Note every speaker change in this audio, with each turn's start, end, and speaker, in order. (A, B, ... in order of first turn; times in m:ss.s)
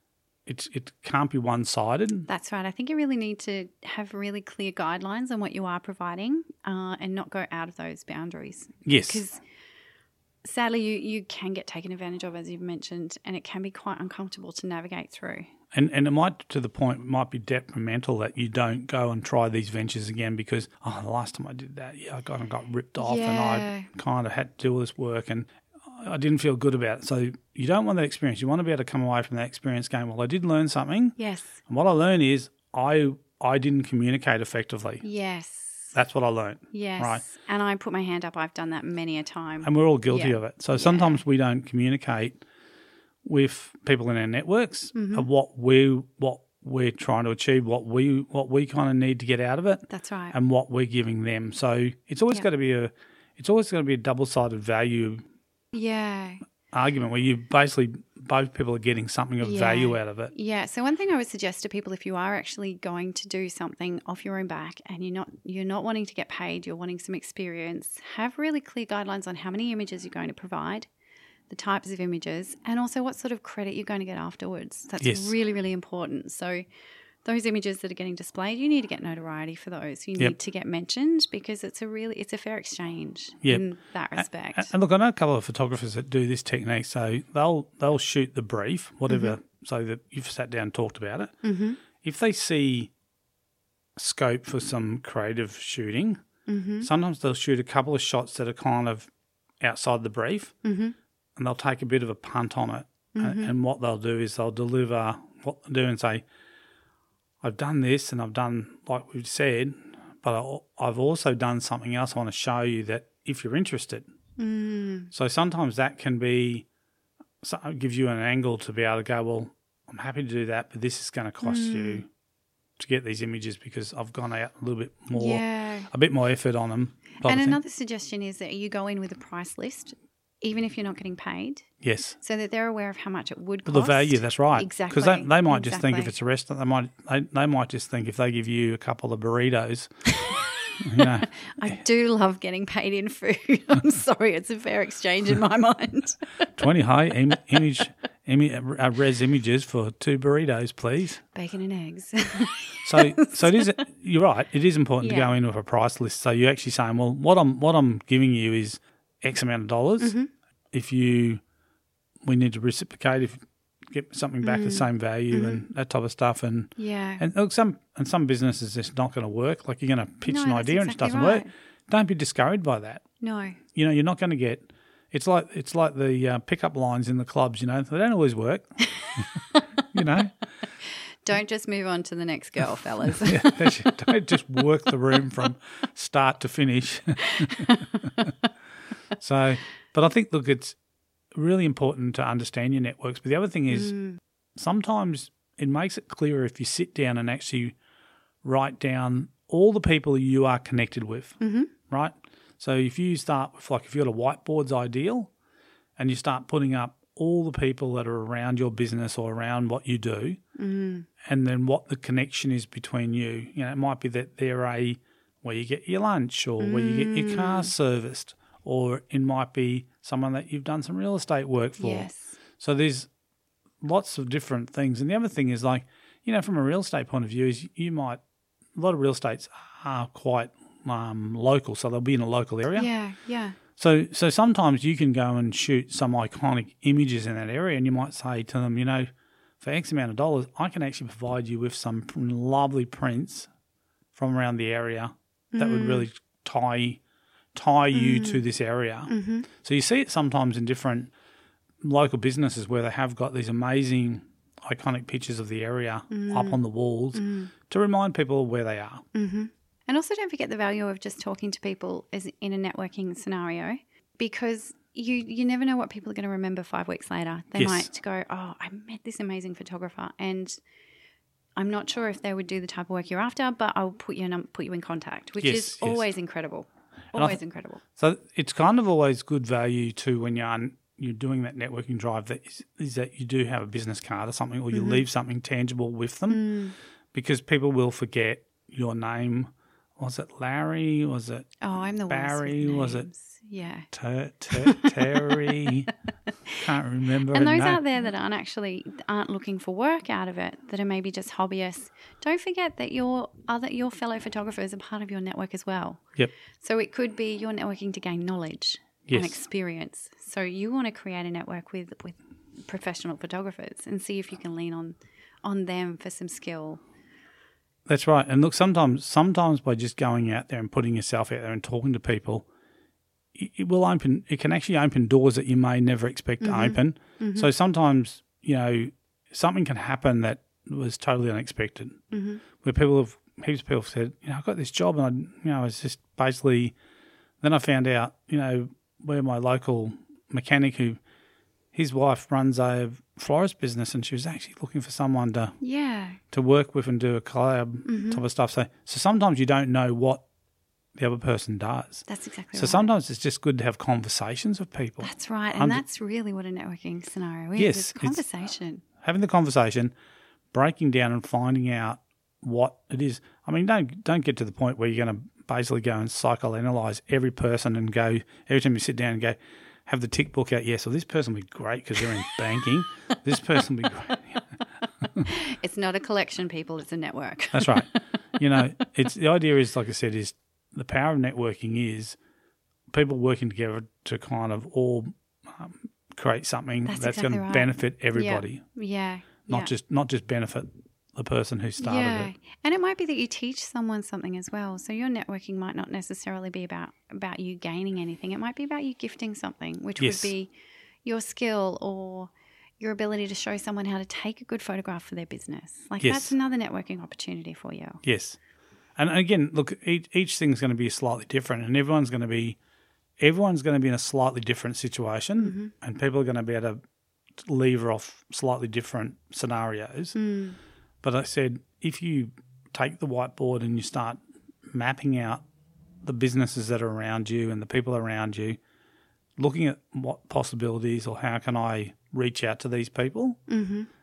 0:00.4-0:02.3 A
0:02.3-0:09.4 B
0:08.8-0:09.2 A
0:10.4-0:15.5 B
0:15.7-0:31.2 A
0:23.0-0:23.9 B
0:31.2-0:31.6 B
0:31.7-0:35.0 A
0:35.0-0:35.9 B
0:35.9-0:37.2 A
0:36.7-0:41.2 B
0:39.6-0:42.4 A
0:43.2-0:55.2 A
0:44.9-0:45.3 B
0:49.9-0:50.3 B
0:55.7-0:56.4 B
0:56.7-1:00.3 A
0:59.4-1:10.9 B
1:11.5-1:16.6 B
1:15.0-1:15.3 A
1:17.2-1:24.7 B
1:23.4-1:31.3 A
1:29.1-1:29.4 B
1:31.4-1:31.8 B
1:32.0-1:32.9 A
1:34.0-1:36.2 A
1:36.5-1:36.9 B
1:36.8-1:39.1 A
1:39.6-1:40.5 A
1:40.6-1:40.9 B
1:41.4-1:46.2 A
1:43.1-1:43.5 B
1:47.4-1:54.1 A
1:54.4-1:55.1 B
1:55.1-1:56.6 A
1:57.4-2:02.1 A
2:01.4-2:02.0 B
2:02.8-2:07.6 A
2:05.1-2:05.9 B
2:07.2-2:11.7 B
2:11.8-2:12.2 A
2:12.2-2:16.1 B
2:13.6-2:19.9 A
2:20.1-2:26.5 B
2:20.8-2:21.7 A
2:26.6-2:31.2 A
2:31.3-2:33.8 B
2:32.8-2:40.2 A
2:35.0-2:35.3 B
2:40.0-2:40.3 B
2:40.7-2:41.4 A
2:42.2-2:53.0 A
2:44.4-2:45.6 B
2:46.8-2:47.2 B
2:50.2-2:51.5 B
2:53.2-2:53.6 B
2:53.7-2:59.2 A
2:58.9-2:59.8 B
2:59.9-3:00.3 A
3:01.2-3:03.8 B
3:03.2-3:08.3 A
3:07.2-3:08.5 B
3:09.2-3:10.8 A
3:11.3-3:13.9 A
3:13.7-3:14.2 B
3:14.6-3:17.8 A
3:18.4-3:25.3 A
3:21.4-3:21.7 B
3:26.0-3:30.4 A
3:30.6-3:31.1 B
3:31.2-3:43.1 A
3:36.6-3:37.7 B
3:41.8-3:42.4 B
3:43.8-3:48.2 A
3:48.8-3:52.9 A
3:52.7-3:53.6 B
3:53.8-3:59.1 A
3:59.6-4:03.5 A
4:04.1-4:07.0 A
4:05.5-4:06.0 B
4:07.5-4:11.1 A
4:07.9-4:08.4 B
4:09.1-4:09.5 B
4:11.8-4:19.0 A
4:16.1-4:16.6 B
4:17.1-4:17.5 B
4:19.1-4:30.6 B
4:27.6-4:27.9 A
4:31.6-4:37.8 B
4:35.4-4:36.0 A
4:37.1-4:37.4 A
4:38.0-4:46.4 A
4:44.7-4:45.0 B
4:46.3-4:46.7 B
4:47.1-4:51.5 A
4:51.6-4:53.9 B
4:52.1-4:53.1 A
4:53.9-4:55.9 A
4:54.5-4:55.8 B
4:56.6-4:57.8 A
4:57.3-5:06.0 B
5:06.6-5:16.8 B
5:09.0-5:09.4 A
5:17.8-5:22.5 A
5:23.3-5:32.0 A
5:26.4-5:27.5 B
5:32.1-5:32.4 B
5:32.6-5:36.7 A
5:37.4-5:41.0 A
5:41.7-5:45.6 A
5:45.6-5:46.2 B
5:46.3-5:50.2 A
5:47.8-5:48.2 B
5:51.0-5:55.8 A
5:52.1-5:52.9 B
5:55.0-5:58.8 B
5:57.6-5:58.2 A
5:59.0-5:59.9 A
6:00.5-6:14.6 A
6:15.2-6:18.9 B
6:17.5-6:22.2 A
6:22.9-6:28.6 A
6:26.8-6:29.7 B
6:29.5-6:32.3 A
6:31.8-6:40.5 B
6:40.0-6:40.3 A
6:41.0-6:48.0 B
6:46.0-6:46.3 A
6:48.0-6:48.4 A
6:49.0-6:52.6 A
6:53.2-6:56.8 A
6:55.4-6:55.7 B
6:57.4-7:00.2 A
7:00.1-7:00.6 B
7:01.0-7:04.2 A
7:04.7-7:05.4 A
7:06.0-7:08.6 A
7:09.4-7:13.4 A
7:13.5-7:13.9 B